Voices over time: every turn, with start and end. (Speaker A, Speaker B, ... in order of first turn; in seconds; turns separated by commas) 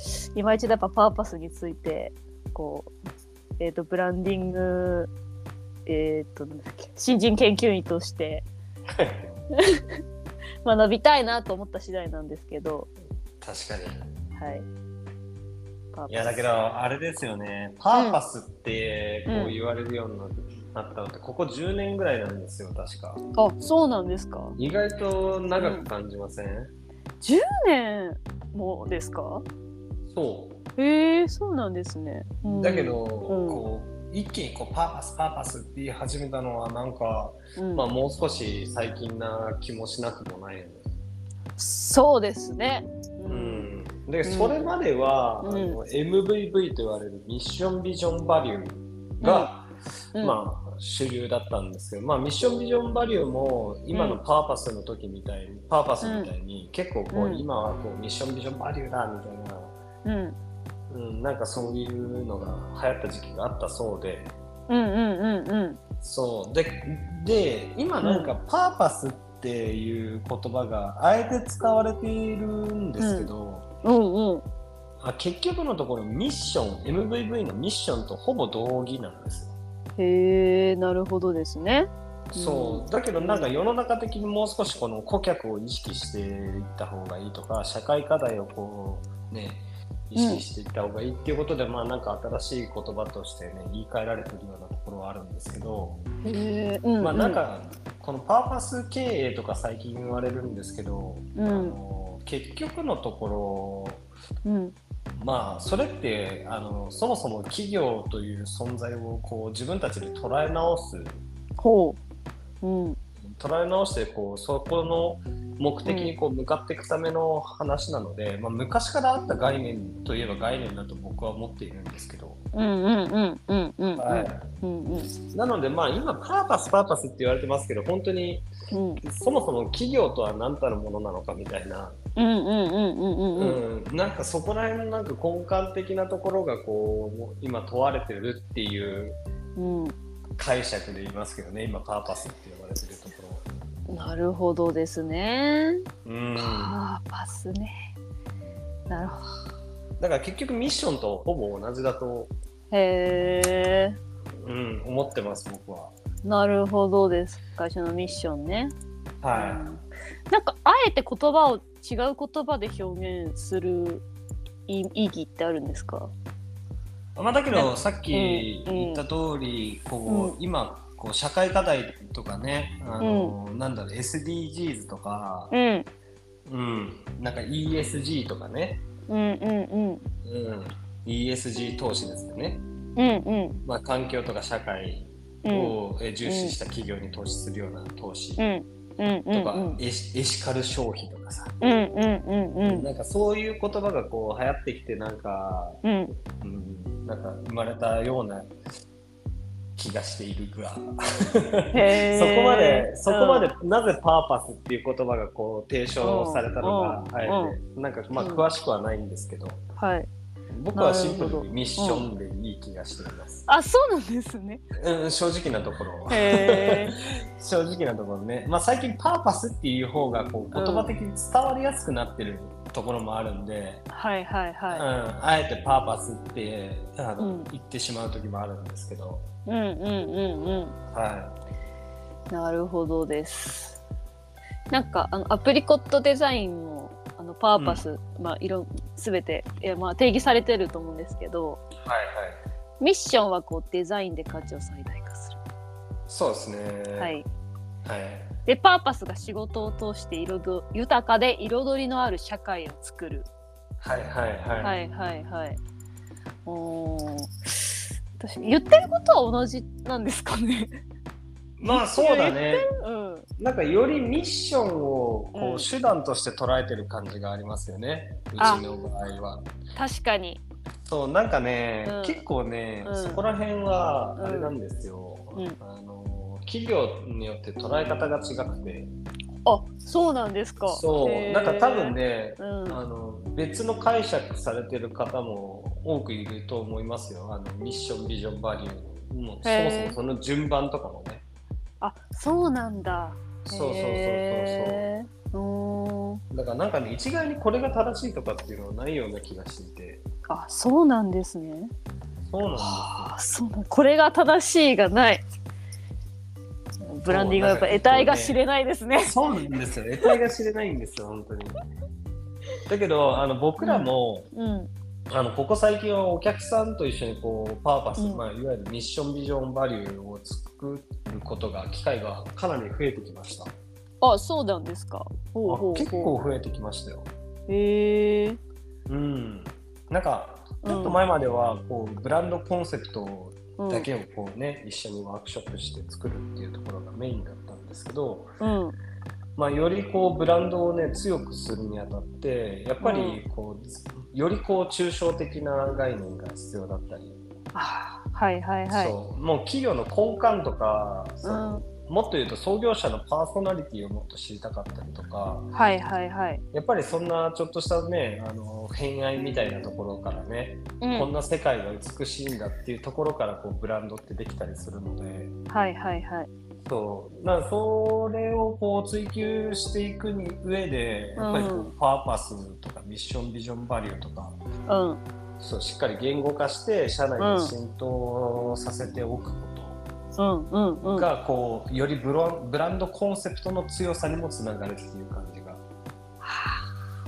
Speaker A: 0.3-2.9, Speaker A: 3.6-5.1, Speaker A: 5.9-8.5, Speaker B: 9.0-9.3, Speaker A: 9.6-9.8, Speaker A: 10.6-12.9, Speaker B: 13.4-14.0, Speaker A: 14.4-14.7, Speaker A: 15.9-16.5, Speaker B: 16.1-23.2, Speaker A: 17.9-18.2, Speaker A: 19.3-19.6, Speaker A: 23.4-24.6, Speaker B: 24.6-26.7, Speaker A: 25.6-25.9, Speaker A: 27.2-29.4, Speaker B: 30.1-30.6, Speaker A: 30.8-33.6, Speaker B: 32.6-40.8, Speaker A: 37.6-37.9, Speaker A: 41.6-43.7, Speaker B: 43.3-59.8, Speaker A: 44.2-44.8, Speaker A: 45.4-45.8, Speaker A: 49.2-49.5, Speaker A: 50.2-50.4, Speaker A: 53.9-54.2, Speaker A: 56.0-56.3, Speaker A: 57.1-57.5, Speaker A: 60.0-60.4, Speaker B: 60.9-64.3, Speaker A: 64.7-65.8, Speaker B: 66.0-73.7, Speaker A: 68.0-68.3, Speaker A: 73.0-73.3, Speaker A: 73.8-74.4, Speaker B: 75.0-79.5, Speaker A: 80.0-83.5, Speaker B: 82.3-96.0, Speaker A: 90.2-90.4, Speaker A: 96.2-97.4, Speaker B: 97.0-104.1, Speaker A: 101.3-101.8, Speaker A: 104.5-104.7, Speaker B: 105.2-111.2, Speaker A: 111.6-112.0, Speaker A: 112.6-113.0, Speaker B: 113.3-122.4, Speaker A: 115.8-116.1, Speaker A: 122.5-125.1, Speaker B: 124.0-124.4, Speaker B: 125.3-128.5, Speaker A: 128.7-129.0, Speaker B: 129.0-132.0, Speaker A: 132.2-133.6, Speaker B: 133.3-139.2, Speaker A: 139.6-139.9, Speaker B: 140.4-143.5, Speaker A: 143.9-145.8, Speaker B: 146.1-146.8, Speaker A: 146.4-147.9, Speaker A: 148.9-149.3, Speaker B: 150.0-152.3, Speaker A: 152.7-154.0, Speaker B: 154.4-155.9, Speaker A: 156.2-158.7, Speaker B: 159.2-159.6, Speaker A: 159.3-164.0, Speaker A: 164.7-166.1, Speaker B: 167.2-175.5, Speaker A: 167.5-169.0, Speaker A: 170.1-170.4, Speaker A: 173.0-173.3, Speaker A: 175.5-175.9, Speaker B: 176.5-178.8, Speaker A: 179.1-180.0, Speaker B: 180.2-182.6, Speaker A: 183.0-183.6, Speaker B: 183.7-188.4, Speaker A: 185.4-186.6, Speaker A: 188.4-189.8, Speaker B: 189.3-191.5, Speaker A: 191.6-192.9, Speaker B: 192.7-195.8, Speaker A: 195.8-196.2, Speaker B: 196.4-198.5, Speaker B: 199.8-209.6, Speaker A: 201.7-203.5, Speaker A: 206.0-207.6, Speaker A: 208.2-208.4, Speaker A: 209.8-210.1, Speaker B: 210.5-213.5, Speaker A: 210.7-212.1, Speaker A: 213.5-214.6, Speaker B: 214.8-223.8, Speaker A: 216.1-217.0, Speaker A: 220.5-220.9, Speaker A: 223.9-224.9, Speaker B: 224.7-229.3, Speaker A: 227.2-227.5, Speaker A: 229.5-230.8, Speaker B: 230.9-231.3, Speaker A: 232.3-233.8, Speaker A: 234.7-241.6, Speaker B: 237.6-237.8, Speaker B: 241.8-242.4, Speaker A: 242.8-245.4, Speaker B: 246.1-247.1, Speaker A: 247.0-247.2, Speaker B: 247.8-248.3, Speaker A: 248.5-253.3, Speaker B: 253.8-254.8, Speaker A: 254.6-255.6, Speaker A: 256.5-260.8, Speaker B: 261.6-262.7, Speaker A: 261.6-263.3, Speaker B: 263.4-269.5, Speaker A: 265.3-265.7, Speaker A: 268.4-268.6, Speaker A: 269.8-270.4, Speaker B: 270.9-278.9, Speaker A: 271.9-272.2, Speaker A: 272.8-273.2, Speaker A: 274.2-274.5, Speaker A: 279.4-282.8, Speaker B: 280.7-291.2, Speaker A: 289.4-290.0, Speaker A: 291.8-296.2, Speaker B: 293.5-294.9, Speaker B: 296.3-300.0, Speaker A: 300.3-301.7, Speaker B: 302.3-303.1, Speaker A: 302.6-305.2, Speaker A: 306.9-309.1, Speaker B: 307.1-308.4, Speaker B: 309.0-311.6, Speaker B: 312.7-314.3, Speaker A: 313.6-314.7, Speaker B: 315.1-323.5, Speaker A: 318.0-318.2, Speaker A: 324.0-326.1, Speaker B: 325.5-327.1, Speaker A: 327.5-328.4, Speaker B: 328.9-338.3, Speaker A: 330.6-331.0, Speaker A: 333.6-333.9, Speaker A: 338.4-338.8, Speaker B: 339.4-347.2, Speaker A: 342.8-343.2, Speaker A: 347.5-348.9, Speaker B: 348.7-355.5, Speaker A: 351.2-351.6, Speaker A: 355.5-356.4, Speaker B: 356.5-365.3, Speaker A: 360.8-361.1, Speaker A: 365.5-366.3, Speaker B: 366.6-374.4, Speaker A: 371.2-371.7, Speaker A: 374.7-375.0, Speaker B: 375.4-379.8, Speaker A: 377.2-377.5, Speaker A: 380.2-381.1, Speaker B: 380.8-385.6, Speaker A: 386.2-386.6